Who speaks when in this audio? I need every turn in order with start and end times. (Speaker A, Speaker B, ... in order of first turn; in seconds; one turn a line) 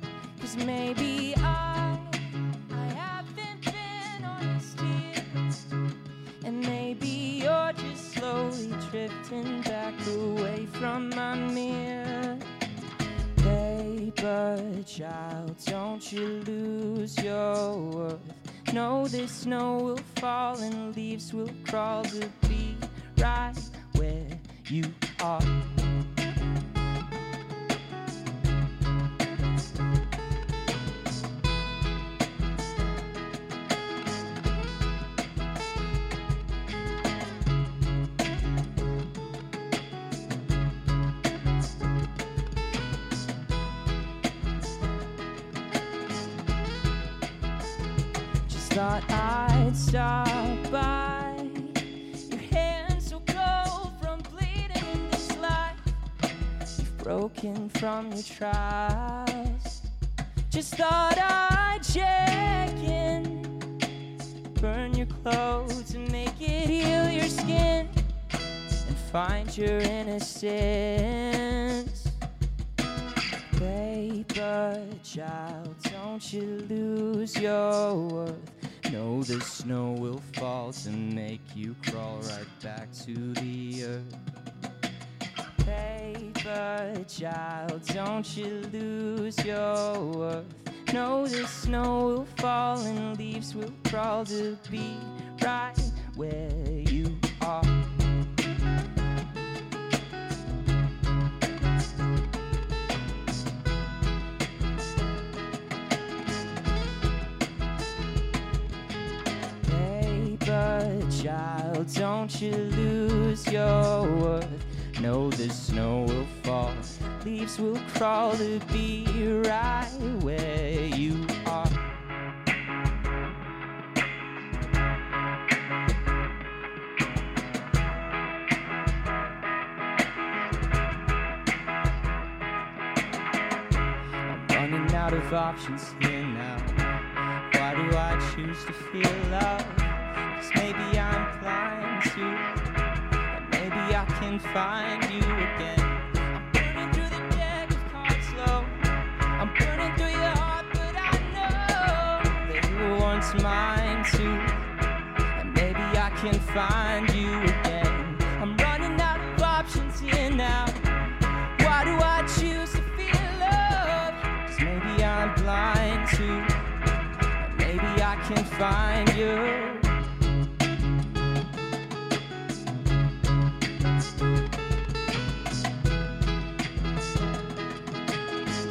Speaker A: 0.4-5.5
Speaker A: 6.4-12.5
Speaker A: 13.4-25.5
Speaker A: 48.5-55.8
Speaker A: 56.8-59.8
Speaker A: 60.5-63.6
Speaker A: 64.6-68.0
Speaker A: 68.8-72.1
Speaker A: 73.5-84.2
Speaker A: 85.6-97.8
Speaker A: 109.6-121.8
Speaker A: 134.3-136.8
Speaker A: 137.5-142.5
Speaker A: 143.3-148.7
Speaker A: 149.4-154.6
Speaker A: 155.4-160.8
Speaker A: 161.6-166.5
Speaker A: 167.4-169.9